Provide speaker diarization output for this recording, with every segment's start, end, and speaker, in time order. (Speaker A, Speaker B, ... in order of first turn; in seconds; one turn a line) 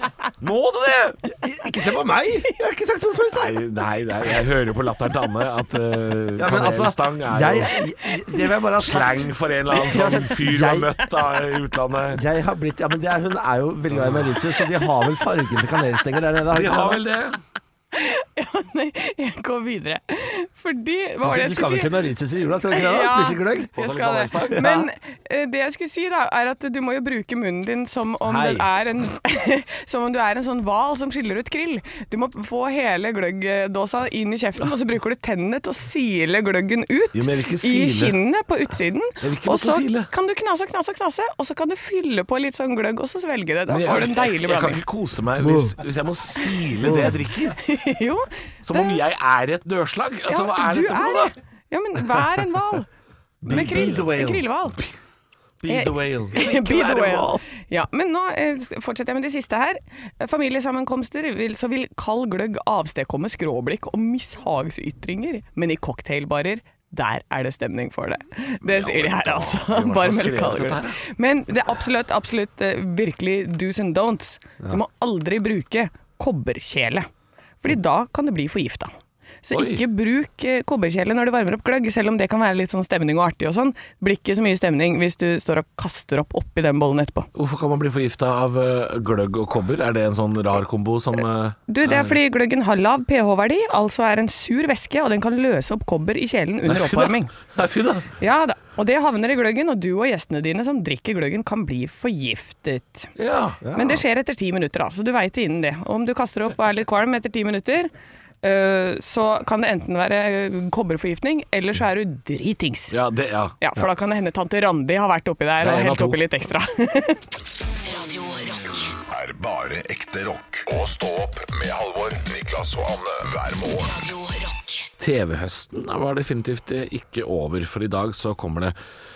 Speaker A: 0.4-1.2
Speaker B: 1.2-3.6
Speaker A: 3.3-7.8
Speaker B: 6.4-10.9
Speaker A: 8.8-12.2
Speaker B: 12.1-17.0
Speaker A: 13.9-14.4
Speaker A: 16.5-17.4
Speaker C: 17.9-22.0
Speaker B: 21.2-23.7
Speaker C: 22.7-44.8
Speaker A: 23.8-24.8
Speaker B: 24.6-24.8
Speaker B: 28.2-28.7
Speaker A: 37.1-38.2
Speaker A: 39.2-40.1
Speaker A: 43.7-47.6
Speaker B: 45.4-45.7
Speaker B: 46.8-47.1
Speaker C: 47.6-49.0
Speaker A: 48.6-51.3
Speaker C: 50.3-52.9
Speaker B: 53.4-54.4
Speaker C: 53.5-54.8
Speaker B: 55.6-56.4
Speaker C: 55.7-77.1
Speaker A: 56.3-57.4
Speaker A: 68.6-71.0
Speaker C: 77.6-78.9
Speaker C: 79.4-87.3
Speaker A: 79.5-79.8
Speaker A: 87.3-92.2
Speaker C: 91.7-97.3
Speaker A: 96.6-98.1
Speaker C: 98.2-103.1
Speaker A: 103.2-103.6
Speaker B: 103.6-104.0
Speaker C: 103.7-107.9
Speaker C: 108.4-112.9
Speaker A: 112.9-113.6
Speaker C: 113.6-117.2
Speaker A: 115.6-116.2
Speaker D: 117.7-118.9
Speaker E: 119.1-123.9
Speaker D: 123.8-124.9
Speaker A: 125.0-128.7